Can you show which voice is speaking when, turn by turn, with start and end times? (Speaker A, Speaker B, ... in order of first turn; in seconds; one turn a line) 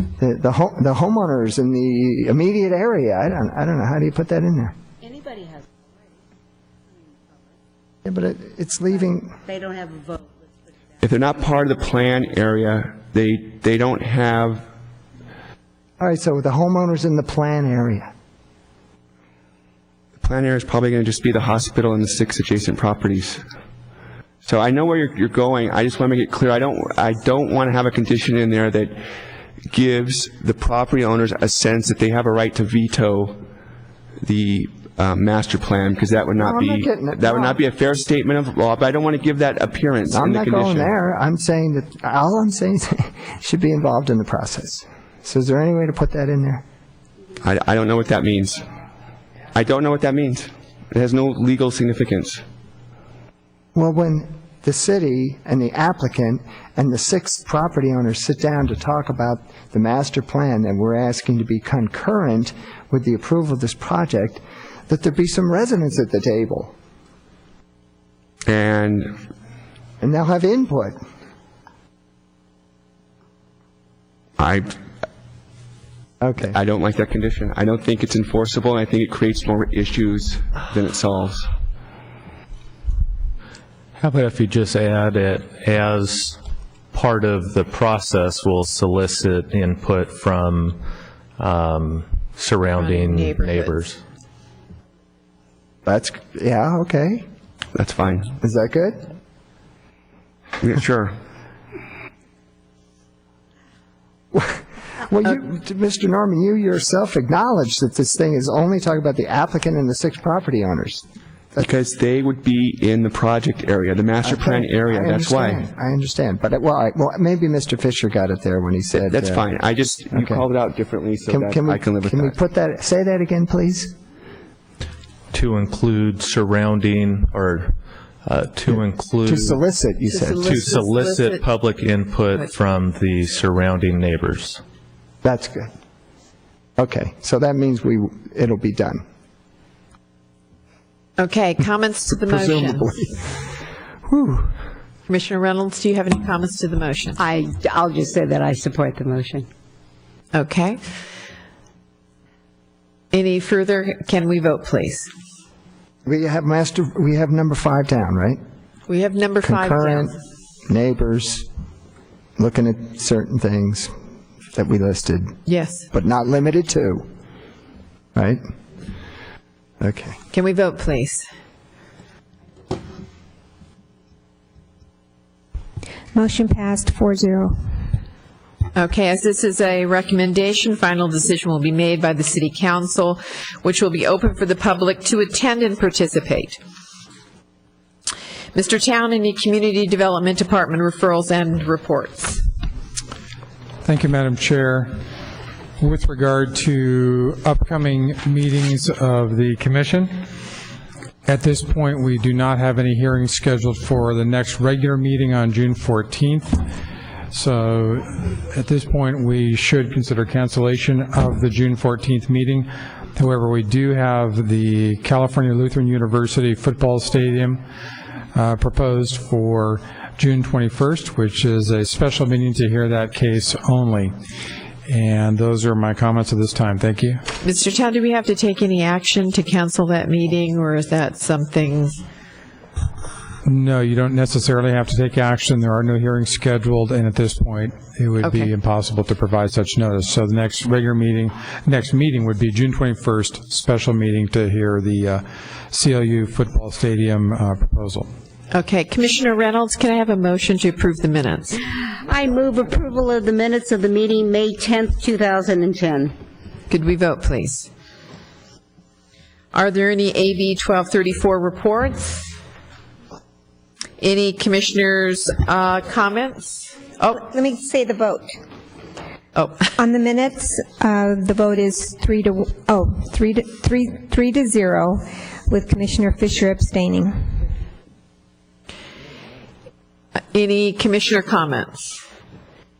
Speaker A: 0.2-4.7
Speaker B: 5.0-5.6
Speaker A: 8.0-9.3
Speaker B: 9.4-10.2
Speaker C: 11.0-14.6
Speaker A: 16.0-18.1
Speaker C: 20.2-23.4
Speaker C: 24.4-29.0
Speaker C: 29.7-33.4
Speaker C: 34.2-40.9
Speaker A: 36.4-37.6
Speaker A: 40.1-46.6
Speaker C: 47.4-48.6
Speaker C: 49.5-52.4
Speaker A: 53.7-66.7
Speaker C: 68.5-69.1
Speaker A: 70.0-71.0
Speaker C: 74.4-74.8
Speaker A: 76.2-76.6
Speaker C: 76.4-81.5
Speaker D: 84.0-86.4
Speaker D: 86.9-90.8
Speaker D: 91.4-94.0
Speaker E: 92.8-93.8
Speaker A: 95.8-97.2
Speaker C: 97.7-98.3
Speaker A: 98.4-99.0
Speaker C: 100.6-101.1
Speaker A: 104.3-111.7
Speaker C: 111.6-115.6
Speaker A: 114.2-119.5
Speaker C: 118.9-122.3
Speaker A: 120.1-120.4
Speaker A: 121.3-123.9
Speaker D: 125.3-127.7
Speaker D: 128.2-129.6
Speaker A: 128.7-130.7
Speaker E: 130.1-131.4
Speaker D: 130.4-134.6
Speaker A: 135.2-135.7
Speaker A: 136.8-139.0
Speaker E: 141.2-142.9
Speaker A: 142.1-143.2
Speaker A: 144.1-144.6
Speaker E: 145.1-147.2
Speaker B: 147.2-149.5
Speaker E: 150.3-150.8
Speaker E: 153.1-155.1
Speaker A: 156.1-158.4
Speaker E: 158.9-160.1
Speaker A: 159.4-160.1
Speaker A: 160.7-161.5
Speaker A: 162.4-163.9
Speaker A: 164.5-165.4
Speaker E: 165.4-165.8
Speaker A: 165.9-167.0
Speaker A: 168.1-168.4
Speaker A: 169.8-170.2
Speaker E: 170.3-171.2
Speaker F: 176.1-177.8
Speaker E: 178.7-186.6
Speaker E: 188.5-192.4
Speaker G: 193.8-194.9
Speaker G: 195.8-200.1
Speaker G: 201.2-206.6
Speaker G: 207.3-217.6
Speaker G: 218.3-224.1
Speaker G: 224.9-227.2
Speaker E: 227.4-232.0
Speaker G: 233.4-248.1
Speaker E: 238.2-238.5
Speaker E: 248.5-251.6
Speaker B: 252.1-256.1
Speaker E: 256.7-257.7
Speaker E: 259.5-262.3
Speaker E: 264.0-267.2
Speaker F: 267.1-268.3
Speaker E: 269.3-269.6
Speaker F: 269.8-277.4
Speaker E: 280.3-281.8